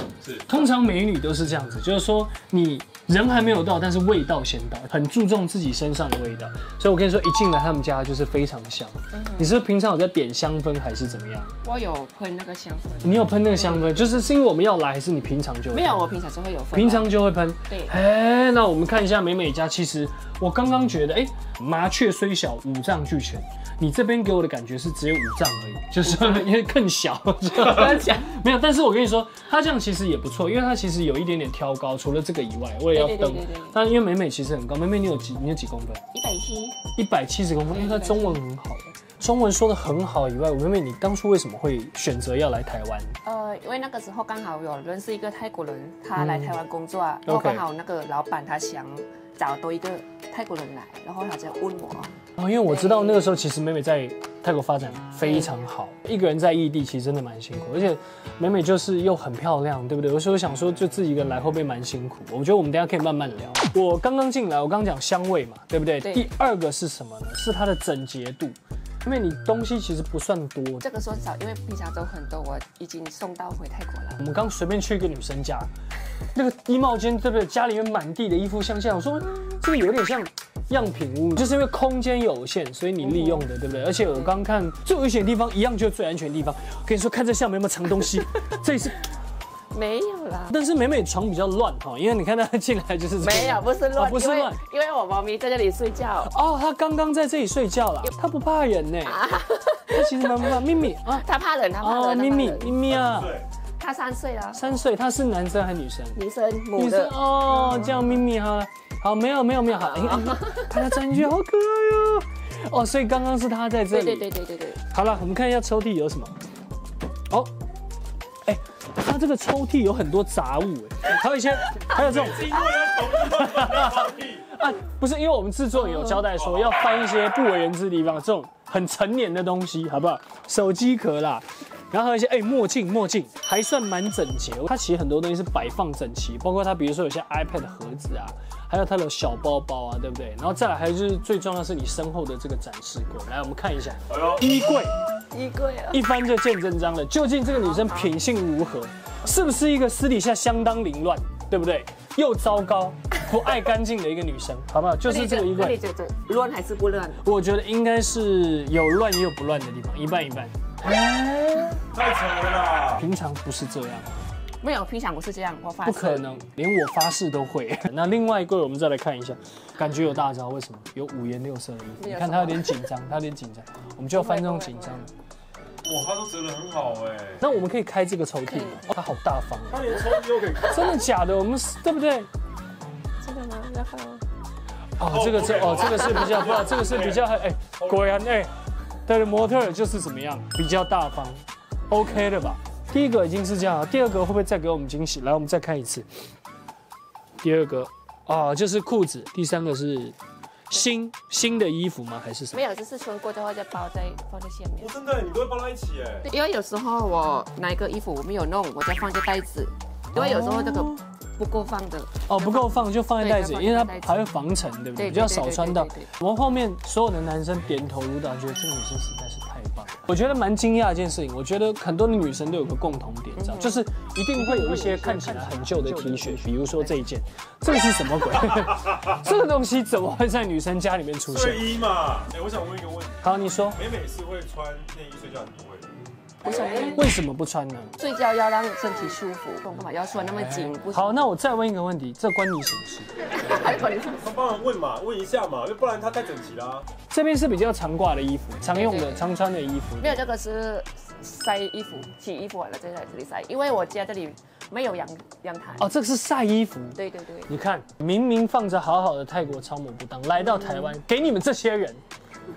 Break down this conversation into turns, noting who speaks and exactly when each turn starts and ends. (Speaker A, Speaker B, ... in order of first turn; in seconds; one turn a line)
Speaker A: 0.2-0.5
Speaker B: 0.5-11.6
Speaker C: 9.1-9.5
Speaker C: 11.6-14.0
Speaker B: 13.0-16.1
Speaker C: 15.7-17.1
Speaker B: 16.7-36.0
Speaker C: 17.7-17.9
Speaker C: 26.1-26.5
Speaker C: 27.6-28.2
Speaker C: 32.9-33.8
Speaker C: 36.1-36.8
Speaker B: 37.0-43.2
Speaker C: 37.7-38.4
Speaker C: 43.2-53.4
Speaker B: 46.2-46.5
Speaker B: 47.3-47.6
Speaker B: 52.4-70.8
Speaker C: 55.2-55.5
Speaker C: 66.0-66.3
Speaker C: 70.8-74.2
Speaker B: 74.2-75.7
Speaker B: 76.3-89.1
Speaker C: 83.0-84.4
Speaker C: 89.7-90.5
Speaker B: 90.5-94.6
Speaker C: 93.2-96.3
Speaker B: 96.2-99.2
Speaker C: 99.0-102.8
Speaker B: 99.9-101.3
Speaker B: 101.8-103.3
Speaker A: 102.9-103.5
Speaker C: 103.8-104.8
Speaker B: 104.5-106.2
Speaker C: 106.2-108.2
Speaker B: 106.8-114.3
Speaker C: 109.7-110.9
Speaker C: 113.9-114.8
Speaker B: 114.9-116.4
Speaker B: 118.5-122.6
Speaker A: 121.9-124.5
Speaker B: 123.3-145.0
Speaker C: 125.9-126.2
Speaker A: 126.4-126.8
Speaker A: 144.1-144.4
Speaker C: 145.3-146.0
Speaker B: 145.9-155.8
Speaker C: 147.7-148.2
Speaker C: 155.1-157.2
Speaker B: 157.2-161.8
Speaker A: 161.9-163.0
Speaker B: 163.0-164.2
Speaker C: 164.6-166.3
Speaker B: 165.8-175.1
Speaker C: 172.0-172.9
Speaker C: 174.1-175.1
Speaker A: 175.8-177.4
Speaker B: 177.4-180.0
Speaker C: 178.5-178.9
Speaker A: 179.7-181.1
Speaker B: 180.6-182.3
Speaker C: 183.2-184.2
Speaker B: 185.0-188.5
Speaker A: 185.1-188.1
Speaker B: 189.1-196.1
Speaker B: 197.4-200.2
Speaker B: 200.7-202.6
Speaker C: 202.5-205.0
Speaker A: 204.8-206.3
Speaker C: 206.3-214.3
Speaker B: 210.2-211.0
Speaker B: 212.3-231.8
Speaker C: 215.0-216.1
Speaker C: 223.4-223.9
Speaker C: 224.4-227.0
Speaker A: 231.3-236.0
Speaker B: 233.2-233.8
Speaker C: 236.4-237.1
Speaker B: 236.9-237.9
Speaker C: 238.0-241.3
Speaker B: 240.3-243.2
Speaker C: 243.3-244.3
Speaker A: 244.2-246.9
Speaker B: 247.1-250.2
Speaker C: 248.7-249.4
Speaker C: 250.0-255.9
Speaker B: 255.8-262.0
Speaker C: 256.9-257.5